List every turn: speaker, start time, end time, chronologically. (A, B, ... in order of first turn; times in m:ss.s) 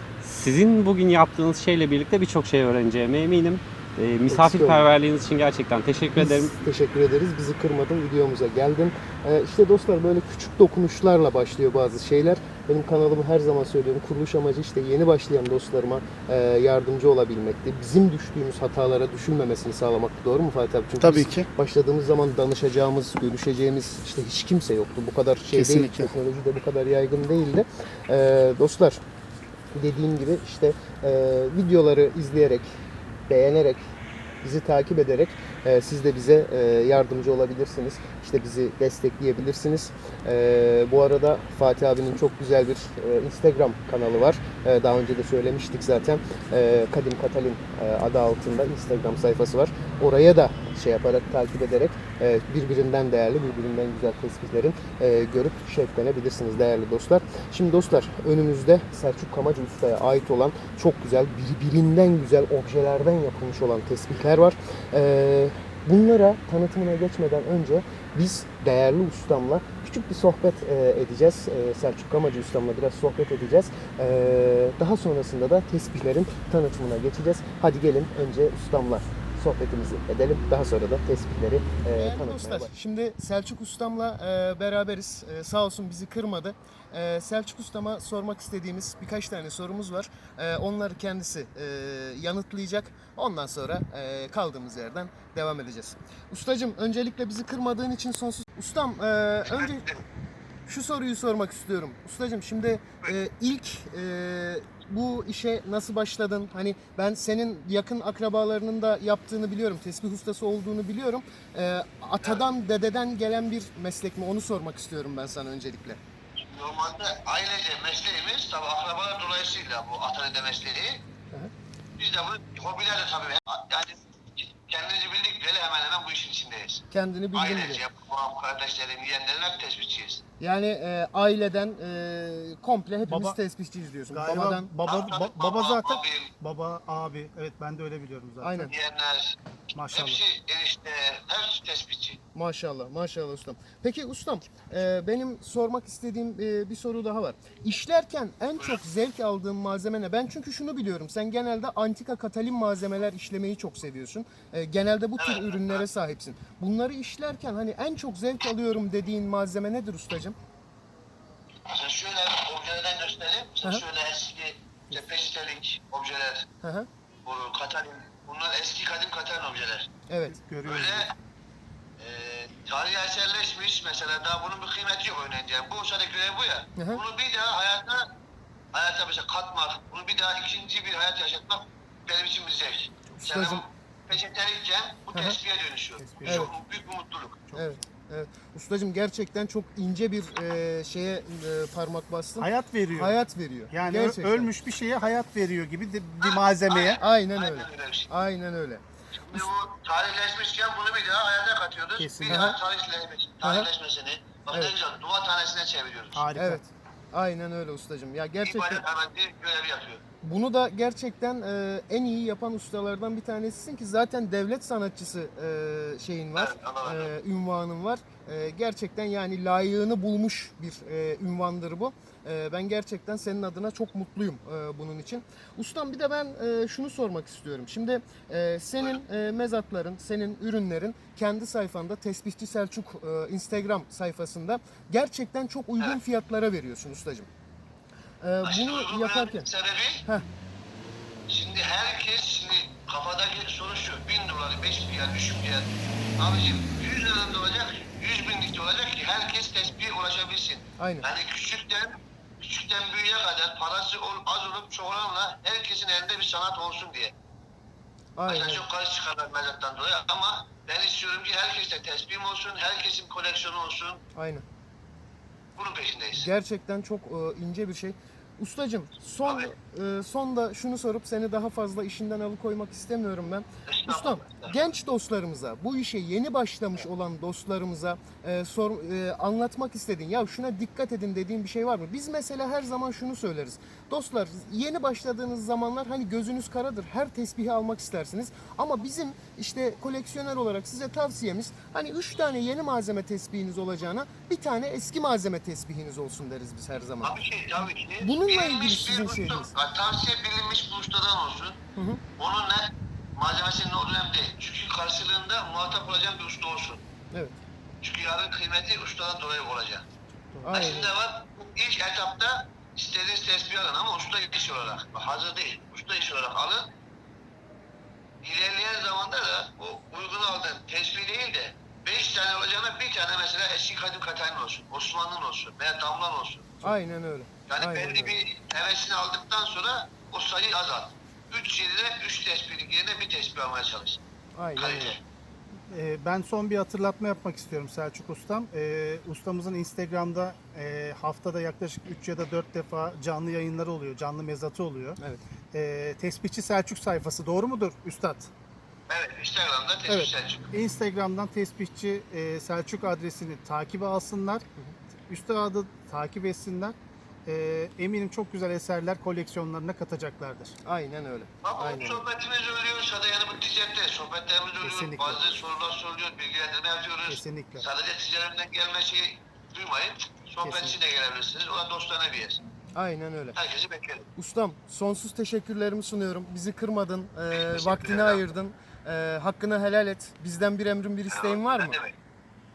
0:00.2-0:06.5 A
0:04.3-0:04.9 B
0:06.2-0:29.0 B
0:21.0-0:21.5 C
0:25.5-0:26.1 C
0:29.7-0:32.7 B
0:33.3-0:33.9 B
0:34.4-1:39.8 B
1:22.1-1:22.5 D
1:39.4-1:40.0 D
1:40.7-1:56.0 B
1:56.4-2:01.0 D
2:02.0-2:10.2 D
2:06.9-2:07.8 B
2:10.4-2:14.6 B
2:13.1-2:13.4 C
2:14.1-2:18.7 C
2:14.8-2:16.3 D
2:18.4-2:18.7 B
2:18.5-2:19.4 D
2:19.7-2:20.2 C
2:19.9-2:22.2 D
2:22.3-2:40.4 B
2:35.2-2:35.8 D
2:41.6-2:46.5 D
2:46.6-2:46.9 B
2:47.2-2:49.9 D
2:50.1-2:50.4 B
2:50.3-2:51.1 C
2:50.6-2:51.1 D
2:52.0-2:58.1 D
2:58.7-3:07.5 D
3:03.1-3:03.6 B
3:05.1-3:05.4 B
3:06.0-3:06.5 C
3:06.2-3:06.5 B
3:07.5-3:14.5 B
3:12.4-3:13.2 C
3:13.7-3:17.0 C
3:16.2-3:18.1 D
3:17.0-3:18.8 B
3:19.2-3:26.3 D
3:22.0-3:22.4 C
3:22.3-3:22.6 B
3:26.1-3:26.6 C
3:26.3-3:28.8 B
3:28.4-3:30.0 D
3:30.2-3:57.3 B
3:36.4-3:37.1 D
3:58.2-3:59.5 B
3:58.4-4:00.0 D
4:01.3-4:17.1 D
4:10.8-4:11.1 B
4:18.2-4:18.6 B
4:18.3-4:24.0 D
4:24.1-4:24.4 B
4:25.6-4:26.3 D
4:26.1-4:57.2 B
4:29.2-4:29.5 D
4:33.7-4:34.5 D
4:57.0-5:01.6 D
4:58.0-4:59.5 B
5:01.8-5:02.0 B
5:02.2-5:06.8 D
5:07.8-5:09.8 D
5:10.4-5:10.9 B
5:10.5-5:16.7 D
5:18.2-5:26.7 D
5:26.6-5:28.2 B
5:27.5-5:34.0 D
5:34.4-5:35.0 B
5:34.6-5:35.0 D
5:35.7-5:45.0 C
5:45.5-5:48.3 C
5:48.9-5:50.5 D
5:49.9-5:54.4 C
5:55.1-6:00.5 C
6:00.6-6:02.0 B
6:01.4-6:12.4 D
6:04.6-6:05.2 C
6:07.1-6:07.6 C
6:10.4-6:10.8 B
6:12.7-6:13.4 B
6:13.4-6:14.0 D
6:14.2-6:21.8 B
6:17.3-6:18.2 D
6:21.1-6:21.9 D